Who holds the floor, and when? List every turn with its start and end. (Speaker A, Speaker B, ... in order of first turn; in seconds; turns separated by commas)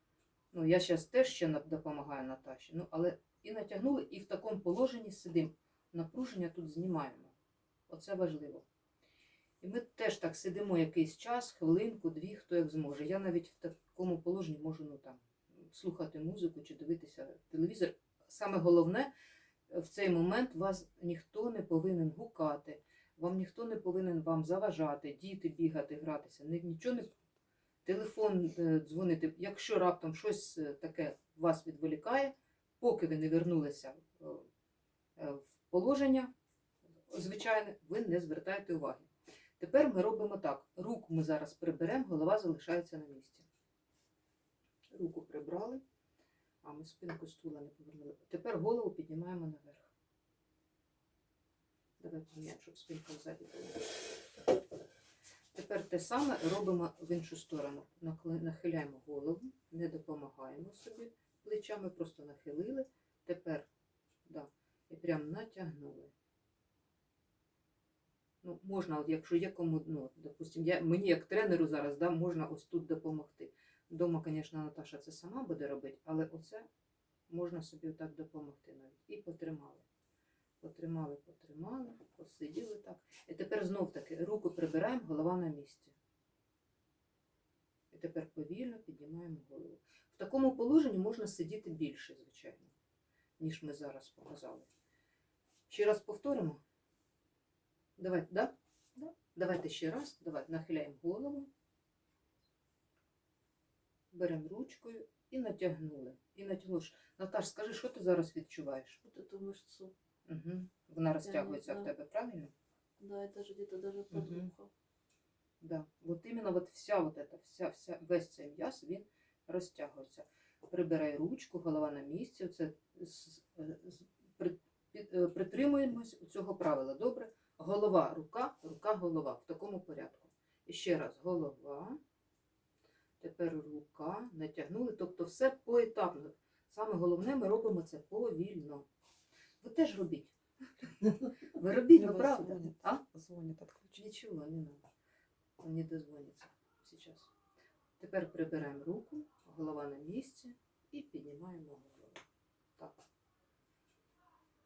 Speaker A: 0.5-7.3, Speaker A: 7.9-8.7, Speaker A: 9.6-19.1, Speaker A: 19.7-27.1, Speaker A: 27.9-34.5, Speaker A: 35.2-36.3, Speaker A: 37.1-39.1, Speaker A: 39.6-43.5, Speaker A: 44.9-45.8, Speaker A: 46.6-49.9, Speaker A: 52.0-53.8, Speaker A: 55.5-63.7, Speaker A: 64.3-66.1, Speaker A: 68.4-76.7, Speaker A: 77.3-79.8, Speaker A: 80.6-86.0, Speaker A: 87.9-92.7, Speaker A: 93.4-94.7, Speaker A: 95.7-96.6, Speaker A: 98.0-101.5, Speaker A: 104.1-109.0, Speaker B: 109.0-109.9, Speaker A: 110.3-112.5, Speaker B: 111.2-111.9, Speaker B: 113.0-114.7, Speaker A: 114.1-114.5, Speaker A: 115.6-132.0, Speaker A: 133.2-138.9, Speaker A: 139.6-143.0, Speaker C: 141.9-144.0, Speaker A: 144.0-144.8, Speaker A: 145.6-147.3, Speaker A: 148.0-152.2